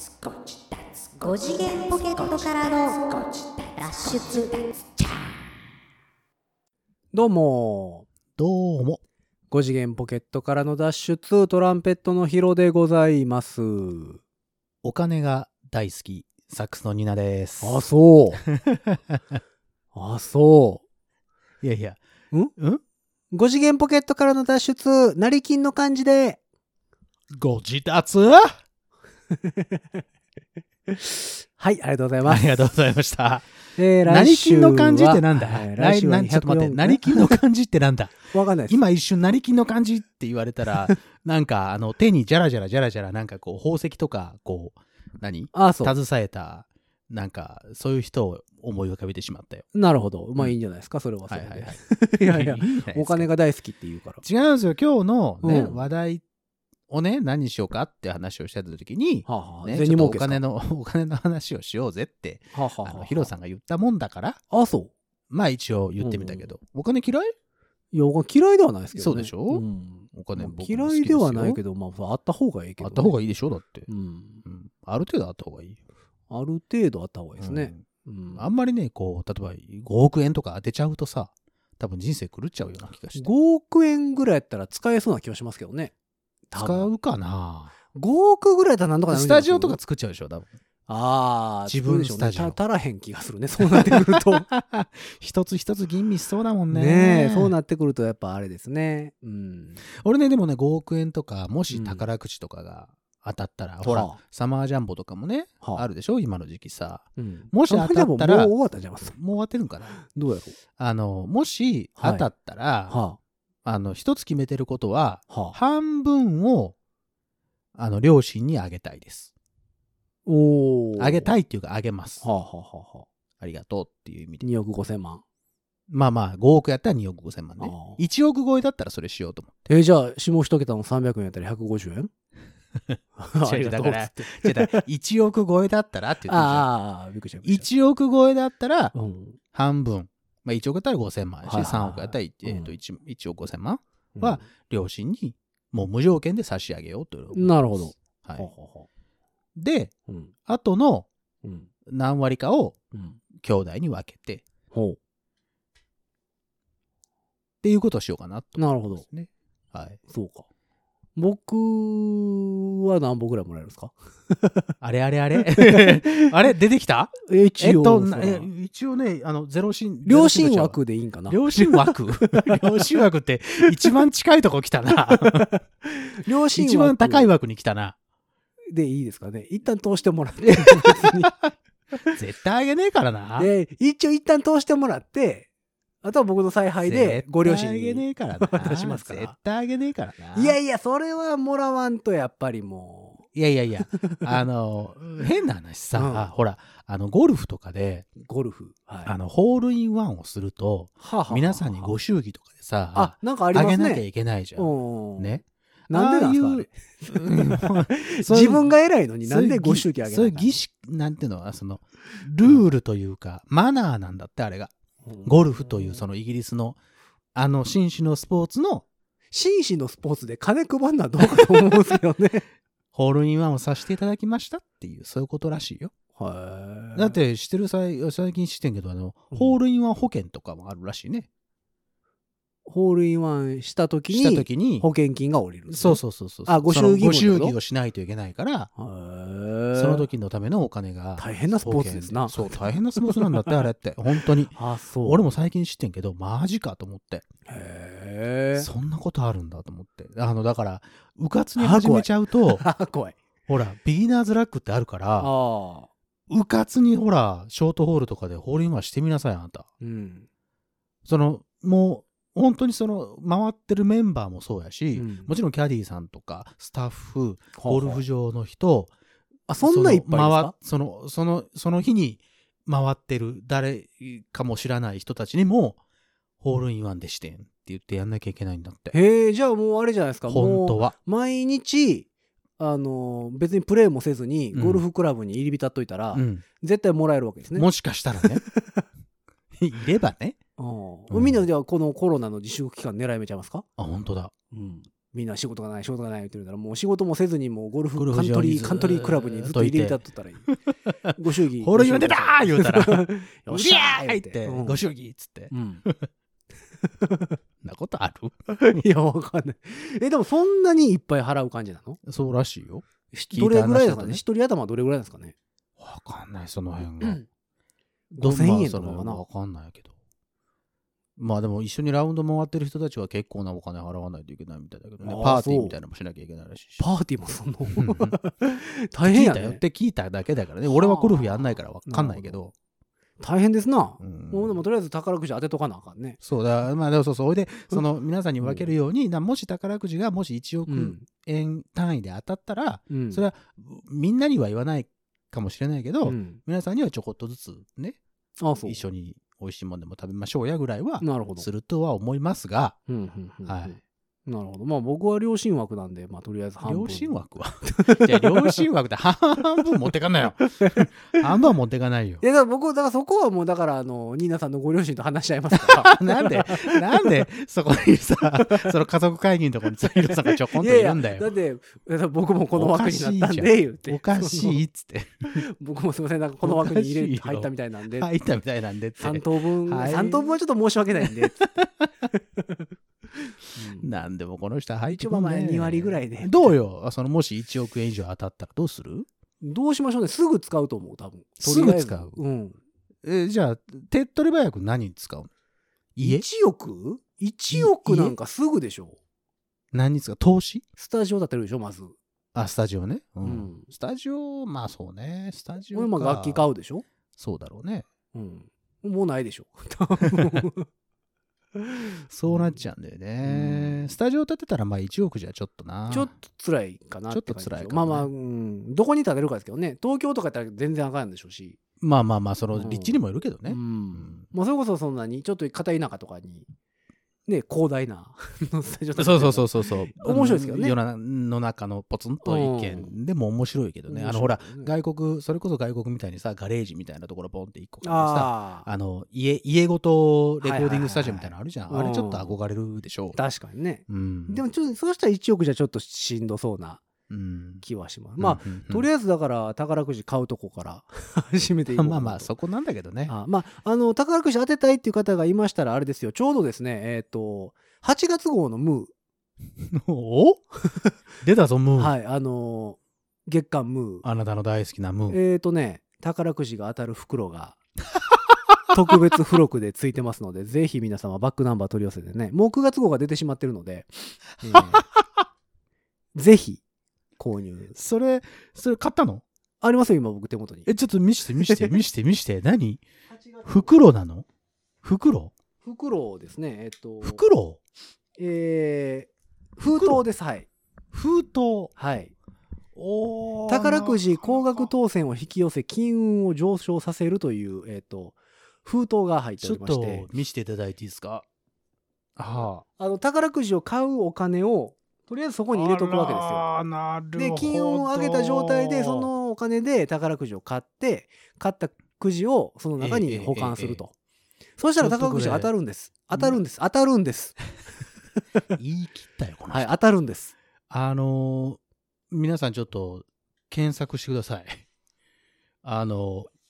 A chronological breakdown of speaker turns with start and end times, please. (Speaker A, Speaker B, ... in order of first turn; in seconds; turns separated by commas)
Speaker A: 0.2-0.6, Speaker A: 1.2-5.3, Speaker B: 7.1-8.1, Speaker C: 8.3-9.0, Speaker B: 9.5-14.2, Speaker C: 14.8-17.8, Speaker B: 17.6-18.4, Speaker C: 18.4-19.4, Speaker B: 19.9-20.8, Speaker C: 21.6-22.0, Speaker C: 22.6-22.8, Speaker B: 23.3-26.4, Speaker C: 27.3-28.6, Speaker B: 29.4-30.0, Speaker B: 30.9-32.7, Speaker C: 32.2-33.5, Speaker B: 33.8-37.4, Speaker C: 34.0-49.6, Speaker B: 38.3-38.8, Speaker B: 45.5-45.9, Speaker B: 49.7-54.2, Speaker C: 51.3-53.3, Speaker C: 54.2-56.2, Speaker B: 55.4-55.8, Speaker C: 56.9-64.4, Speaker B: 59.2-60.4, Speaker B: 62.5-63.3, Speaker B: 64.5-64.9, Speaker C: 65.3-67.3, Speaker B: 66.0-66.5, Speaker B: 67.9-73.2, Speaker C: 68.9-71.6, Speaker C: 72.8-73.9, Speaker B: 73.9-74.4, Speaker C: 74.4-75.8, Speaker B: 76.3-78.5, Speaker C: 77.4-77.8, Speaker C: 78.3-83.3, Speaker B: 83.2-85.9, Speaker B: 86.5-86.9, Speaker C: 86.5-87.7, Speaker B: 87.9-89.8, Speaker C: 89.1-90.5, Speaker B: 90.9-94.5, Speaker C: 91.7-92.6, Speaker C: 93.6-97.5, Speaker B: 96.7-99.8, Speaker C: 99.9-108.5, Speaker B: 101.7-102.0, Speaker B: 103.8-104.2, Speaker B: 107.2-109.2, Speaker C: 109.1-110.0, Speaker B: 110.0-110.6, Speaker C: 110.8-112.9, Speaker B: 112.0-112.2, Speaker B: 112.9-113.2, Speaker C: 113.6-116.7, Speaker B: 115.3-115.5, Speaker C: 117.7-119.3, Speaker B: 120.2-121.3, Speaker C: 121.0-122.2, Speaker B: 122.2-123.1, Speaker C: 123.4-124.4, Speaker B: 124.4-125.2, Speaker C: 125.9-129.5, Speaker B: 127.6-128.0, Speaker B: 129.7-132.1, Speaker C: 132.9-136.7, Speaker B: 133.2-134.8, Speaker B: 136.3-137.7, Speaker C: 137.4-138.9, Speaker B: 138.9-139.4, Speaker C: 139.5-148.5, Speaker B: 141.4-142.7, Speaker B: 144.2-144.4, Speaker B: 147.3-148.9, Speaker C: 149.6-149.9, Speaker B: 150.1-150.3, Speaker C: 150.5-151.1, Speaker B: 151.4-151.7, Speaker C: 151.8-152.8, Speaker B: 152.9-153.2, Speaker C: 153.3-154.4, Speaker B: 154.7-155.0, Speaker C: 157.6-160.0, Speaker B: 158.6-159.0, Speaker B: 160.1-160.4, Speaker B: 161.2-164.6, Speaker C: 164.8-175.5, Speaker B: 165.3-166.3, Speaker B: 167.2-168.5, Speaker B: 170.0-172.8, Speaker B: 175.2-177.3, Speaker C: 176.3-177.9, Speaker B: 178.7-181.3, Speaker C: 180.5-181.5, Speaker C: 182.1-183.5, Speaker B: 183.4-185.5, Speaker B: 186.0-189.3, Speaker C: 186.8-190.6, Speaker B: 190.3-193.2, Speaker C: 193.3-198.1, Speaker B: 193.9-194.2, Speaker B: 195.9-196.3, Speaker B: 198.2-199.2, Speaker C: 199.0-208.7, Speaker B: 201.0-201.9, Speaker B: 202.9-204.0, Speaker B: 204.6-210.6, Speaker C: 209.2-214.7, Speaker B: 215.0-216.0, Speaker C: 215.2-216.8, Speaker C: 217.3-218.8, Speaker B: 219.3-222.4, Speaker C: 222.9-225.9, Speaker B: 226.2-227.1, Speaker C: 226.9-231.3, Speaker B: 229.3-229.6, Speaker B: 232.7-237.6, Speaker C: 234.1-234.9, Speaker C: 235.7-238.7, Speaker B: 238.8-240.0, Speaker C: 239.7-247.2, Speaker B: 241.2-243.5, Speaker B: 244.5-245.2, Speaker B: 247.5-248.7, Speaker C: 248.6-252.6, Speaker B: 251.6-253.2, Speaker C: 253.5-255.3, Speaker B: 255.2-255.9, Speaker C: 256.3-259.7, Speaker B: 259.8-260.3, Speaker C: 261.0-268.9, Speaker B: 264.9-265.3, Speaker B: 267.6-268.0, Speaker B: 269.5-270.5, Speaker C: 269.6-275.8, Speaker C: 276.4-279.0, Speaker B: 278.9-282.1, Speaker C: 280.3-280.9, Speaker B: 282.6-287.7, Speaker C: 284.5-284.8, Speaker C: 286.1-286.4, Speaker C: 287.5-288.4, Speaker B: 288.2-288.8, Speaker C: 289.6-290.4, Speaker B: 290.6-293.6, Speaker C: 291.1-291.4, Speaker C: 293.8-294.3, Speaker B: 294.5-300.5, Speaker C: 297.9-306.1, Speaker B: 301.1-304.8, Speaker B: 305.5-305.8, Speaker B: 306.9-307.4, Speaker C: 307.6-308.8, Speaker B: 308.5-312.0, Speaker C: 312.0-314.2, Speaker B: 313.1-315.3, Speaker C: 315.8-317.2, Speaker B: 318.1-319.2, Speaker C: 318.1-319.9, Speaker C: 321.2-326.8, Speaker B: 325.0-325.8, Speaker B: 326.8-329.6, Speaker C: 327.7-328.2, Speaker C: 329.0-332.5, Speaker B: 330.6-332.4, Speaker B: 333.2-336.2, Speaker C: 334.0-334.5, Speaker C: 336.2-348.0, Speaker B: 338.4-338.7, Speaker B: 340.7-341.1, Speaker B: 342.9-343.2, Speaker B: 346.0-346.4, Speaker B: 348.4-348.8, Speaker C: 348.6-352.8, Speaker B: 351.0-351.5, Speaker B: 352.9-357.1, Speaker C: 353.4-353.8, Speaker C: 356.6-362.2, Speaker B: 357.7-358.6, Speaker B: 360.4-361.2, Speaker B: 362.2-366.8, Speaker C: 365.5-371.3, Speaker B: 370.0-374.6, Speaker C: 372.6-375.4, Speaker B: 375.3-378.1, Speaker C: 376.4-380.4, Speaker B: 379.0-381.5, Speaker C: 381.0-381.9, Speaker B: 382.1-382.6, Speaker B: 383.2-383.9, Speaker C: 383.8-389.1, Speaker B: 384.9-386.6, Speaker B: 389.4-392.6, Speaker C: 391.4-392.2, Speaker C: 393.0-395.3, Speaker C: 395.9-396.2, Speaker B: 396.0-399.0, Speaker C: 397.5-398.1, Speaker C: 399.7-400.6, Speaker B: 400.8-401.9, Speaker C: 402.3-406.4, Speaker B: 403.2-403.7, Speaker B: 405.7-406.8, Speaker C: 407.2-407.9, Speaker B: 408.1-410.7, Speaker B: 411.6-412.5, Speaker C: 412.1-416.1, Speaker B: 413.2-413.9, Speaker B: 415.9-421.6, Speaker C: 417.1-418.1, Speaker C: 421.8-424.2, Speaker B: 422.5-422.9, Speaker B: 423.5-426.5, Speaker B: 427.3-430.7, Speaker C: 429.0-443.2, Speaker B: 432.2-432.9, Speaker B: 433.9-434.7, Speaker B: 437.8-438.7, Speaker B: 440.4-442.3, Speaker B: 443.1-446.8, Speaker C: 443.9-444.4, Speaker C: 447.1-447.6, Speaker B: 447.6-452.3, Speaker C: 448.2-448.9, Speaker C: 451.7-453.1, Speaker B: 453.1-458.9, Speaker C: 459.6-460.4, Speaker C: 461.2-461.9, Speaker B: 461.8-464.0, Speaker C: 464.0-465.2, Speaker B: 465.1-467.6, Speaker B: 468.7-474.9, Speaker C: 474.5-475.0, Speaker B: 476.1-476.6, Speaker B: 477.2-477.8, Speaker C: 477.7-479.2, Speaker B: 479.6-480.7, Speaker C: 480.6-482.8, Speaker B: 481.4-481.8, Speaker B: 483.1-483.7, Speaker C: 483.4-484.2, Speaker C: 484.8-485.3, Speaker B: 485.6-487.2, Speaker C: 487.0-487.6, Speaker B: 488.2-490.5, Speaker C: 489.7-490.0, Speaker C: 490.9-491.7, Speaker B: 491.8-492.1, Speaker C: 492.7-494.7, Speaker B: 493.5-500.1, Speaker C: 499.4-501.2, Speaker C: 502.2-502.6, Speaker B: 502.8-506.5, Speaker C: 505.5-509.1, Speaker B: 507.1-513.9, Speaker C: 512.8-513.8, Speaker B: 514.6-517.4, Speaker C: 514.8-515.5, Speaker C: 518.5-519.7, Speaker B: 519.5-520.3, Speaker C: 520.7-524.6, Speaker C: 525.6-526.3